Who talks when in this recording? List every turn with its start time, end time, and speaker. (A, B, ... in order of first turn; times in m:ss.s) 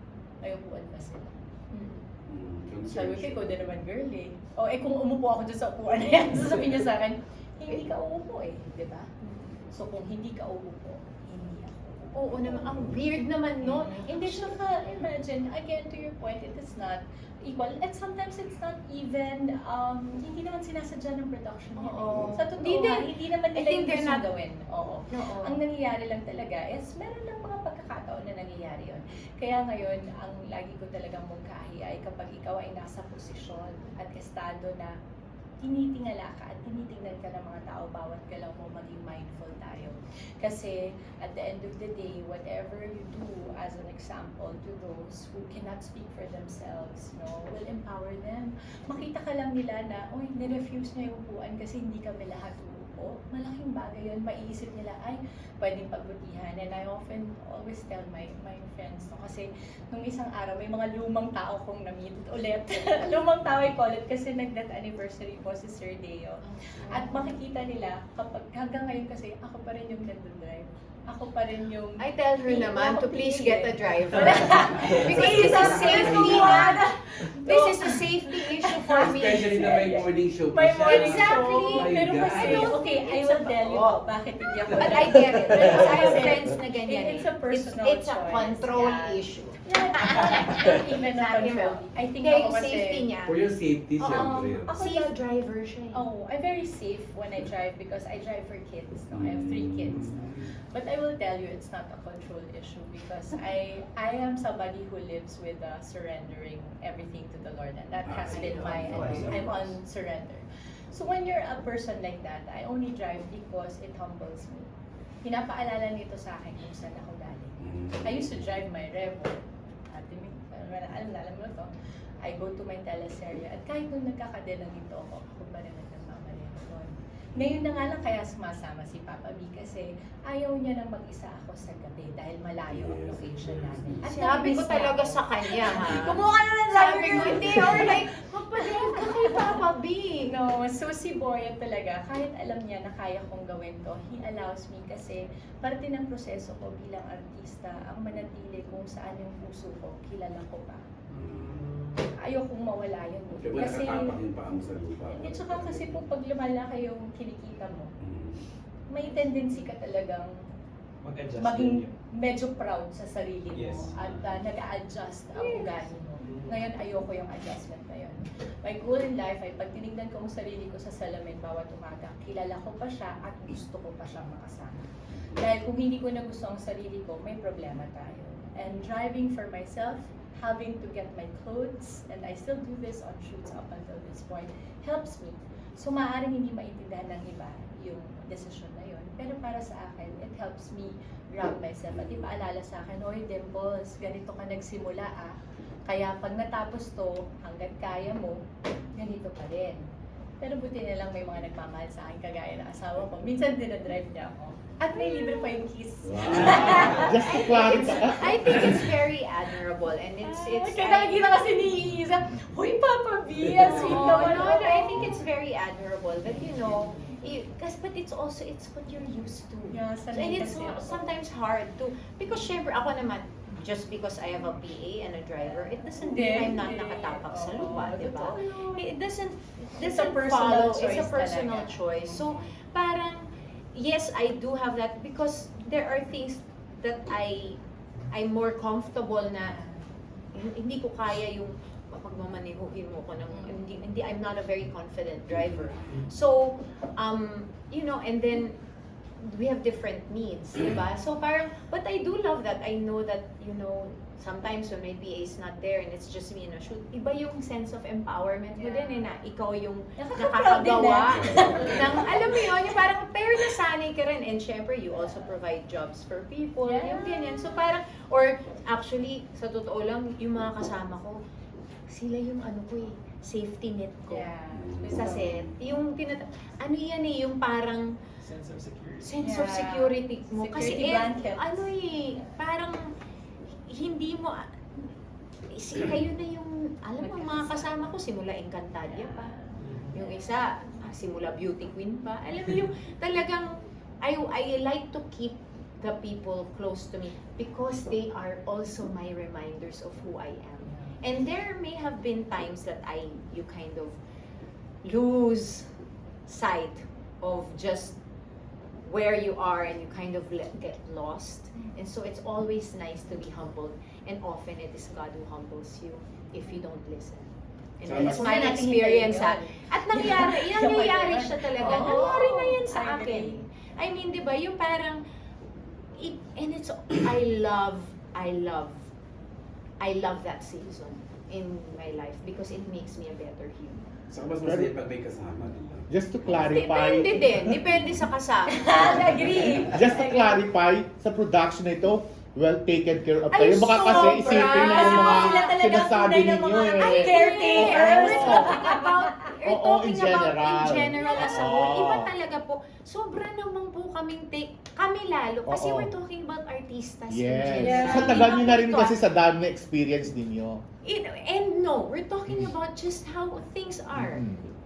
0:00.4-0:02.0 A
0:02.2-0:03.4 B
0:02.8-0:35.0 A
0:12.1-0:14.6 C
0:21.8-0:24.3 C
0:25.1-0:25.6 C
0:35.6-1:33.1 A
1:06.8-1:07.2 C
1:12.0-1:20.0 C
1:15.1-1:16.8 B
1:18.9-1:22.8 B
1:20.8-1:24.0 C
1:24.6-1:33.4 C
1:33.2-1:34.8 B
1:34.0-1:36.1 C
1:34.0-1:35.2 A
1:35.9-1:54.7 A
1:39.1-1:40.5 B
1:48.0-1:49.5 B
1:48.6-1:49.6 D
1:55.2-2:01.7 A
1:57.6-1:58.5 B
2:02.2-2:19.6 A
2:07.3-2:07.7 B
2:12.7-2:14.0 B
2:14.0-2:20.3 C
2:15.8-2:16.1 B
2:20.3-2:30.8 A
2:31.1-2:32.1 D
2:31.1-2:31.7 B
2:32.1-2:34.2 A
2:33.4-2:35.9 B
2:35.1-2:37.9 A
2:38.0-2:38.4 B
2:38.9-2:40.5 A
2:41.0-2:41.9 D
2:41.3-3:19.8 A
2:43.5-2:44.3 D
2:45.4-2:45.7 C
2:46.2-2:46.6 D
2:55.1-2:55.5 B
3:20.4-3:28.7 A
3:25.1-3:25.5 C
3:26.0-3:27.1 B
3:26.3-3:31.5 C
3:26.9-3:28.4 E
3:30.2-3:35.1 A
3:33.6-3:59.6 C
3:39.7-3:41.1 A
3:45.8-3:48.8 A
3:49.8-3:52.4 A
3:59.5-3:59.8 A
4:00.3-4:08.6 C
4:05.3-4:06.0 B
4:09.2-4:31.2 C
4:18.5-4:19.1 A
4:20.0-4:22.7 A
4:21.1-4:22.1 B
4:26.6-4:27.6 A
4:31.9-4:34.3 C
4:34.1-4:35.3 A
4:34.5-4:35.7 B
4:34.8-4:38.0 C
4:38.2-4:39.3 D
4:39.0-4:42.9 C
4:39.2-4:42.0 A
4:43.7-4:44.9 C
4:45.5-5:04.0 C
4:47.0-4:47.7 A
4:48.9-4:50.4 A
4:49.6-4:49.9 D
5:00.7-5:01.0 A
5:04.8-5:05.7 C
5:06.2-5:08.0 C
5:08.8-5:25.0 C
5:17.8-5:18.5 B
5:17.9-5:23.4 A
5:26.0-5:28.9 C
5:29.8-5:33.8 C
5:34.1-5:36.5 B
5:34.4-5:34.7 E
5:35.9-5:37.6 E
5:36.3-5:39.0 C
5:38.5-5:40.3 A
5:39.7-5:48.6 E
5:43.3-5:45.5 C
5:43.8-5:48.9 A
5:46.8-5:59.0 C
5:49.4-5:52.1 E
5:51.0-5:51.6 A
5:55.4-5:55.9 E
5:57.1-6:00.6 E
5:57.6-5:58.5 A
6:00.8-6:04.3 C
6:03.9-6:04.4 E